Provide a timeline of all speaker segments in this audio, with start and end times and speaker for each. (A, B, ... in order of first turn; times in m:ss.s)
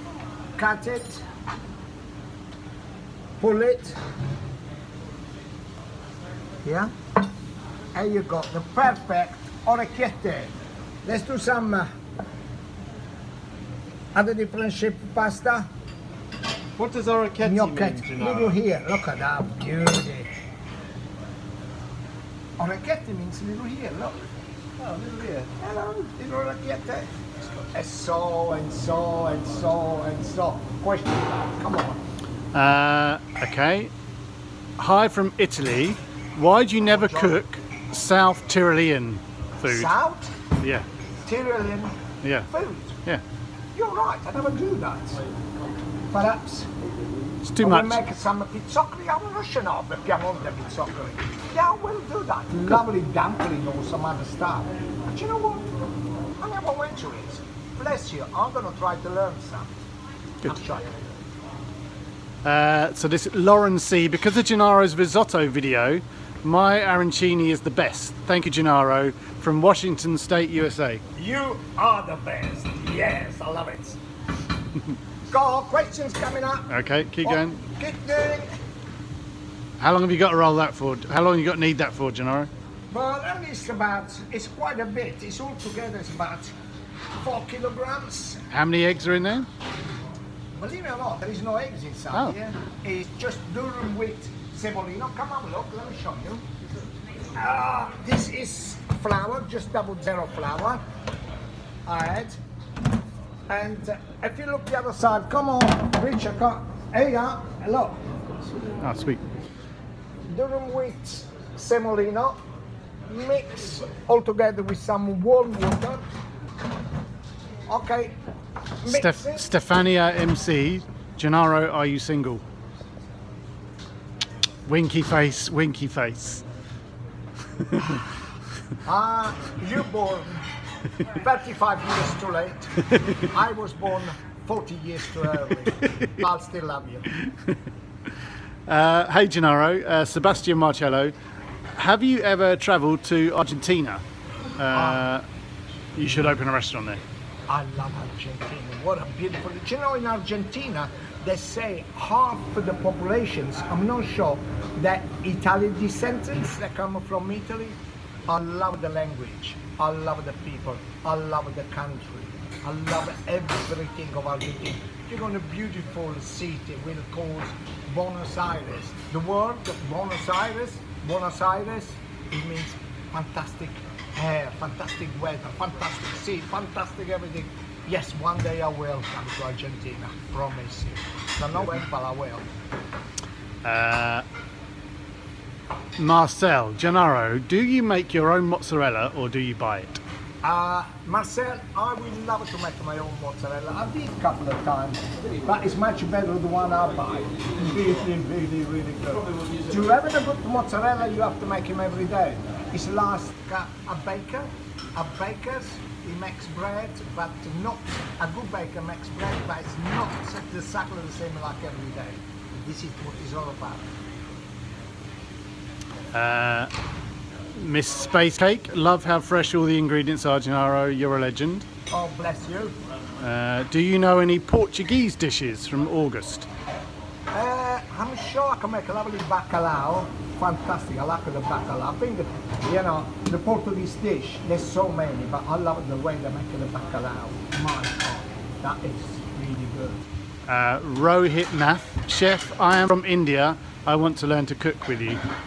0:00.6-0:01.2 A
0:03.4-0:04.0 A
0:06.6-0:06.9 A
0:07.9-0:10.5 A
0:11.0-0:11.9 A
0:14.2-0:15.7 A
0:16.8-0:18.6 B
0:17.4-0:20.3 A
0:22.6-0:24.2 A
0:24.8-0:25.5 B
0:25.6-0:32.0 A
0:32.5-0:33.9 C
0:34.8-0:39.9 C
0:36.9-0:37.4 A
0:39.6-0:40.3 A
0:40.6-0:40.8 C
0:41.2-0:42.0 A
0:42.2-0:42.5 C
0:42.5-0:43.0 A
0:43.7-0:45.2 A
0:46.1-0:46.7 A
0:47.4-0:48.0 C
0:47.6-0:55.7 A
0:56.4-0:59.7 A
1:00.4-1:00.9 A
1:02.4-1:11.0 C
1:11.2-1:14.0 A
1:15.3-1:16.7 A
1:16.7-1:17.6 C
1:17.2-1:18.5 A
1:19.8-1:22.5 C
1:22.9-1:26.5 A
1:27.2-1:28.5 A
1:28.5-1:29.5 C
1:30.6-1:36.4 A
1:37.4-1:40.8 A
1:41.9-1:42.4 A
1:43.5-1:48.0 A
1:48.8-1:49.2 C
1:50.3-1:52.4 A
1:53.1-1:56.0 A
1:57.7-1:58.2 A
1:58.8-1:59.5 A
1:58.9-2:02.4 C
2:04.7-2:06.4 C
2:08.8-2:10.4 A
2:11.0-2:17.1 A
2:17.2-2:17.5 C
2:18.7-2:21.1 C
2:21.8-2:24.0 C
2:24.6-2:25.2 C
2:24.7-2:25.1 A
2:26.0-2:27.0 C
2:27.5-3:02.4 A
3:03.6-3:04.2 C
3:06.0-3:10.0 C
3:10.4-3:33.8 A
3:36.1-3:36.7 C
3:37.6-3:41.7 C
3:41.9-3:42.7 A
3:43.2-3:46.5 C
3:47.3-4:00.0 A
4:00.5-4:05.2 C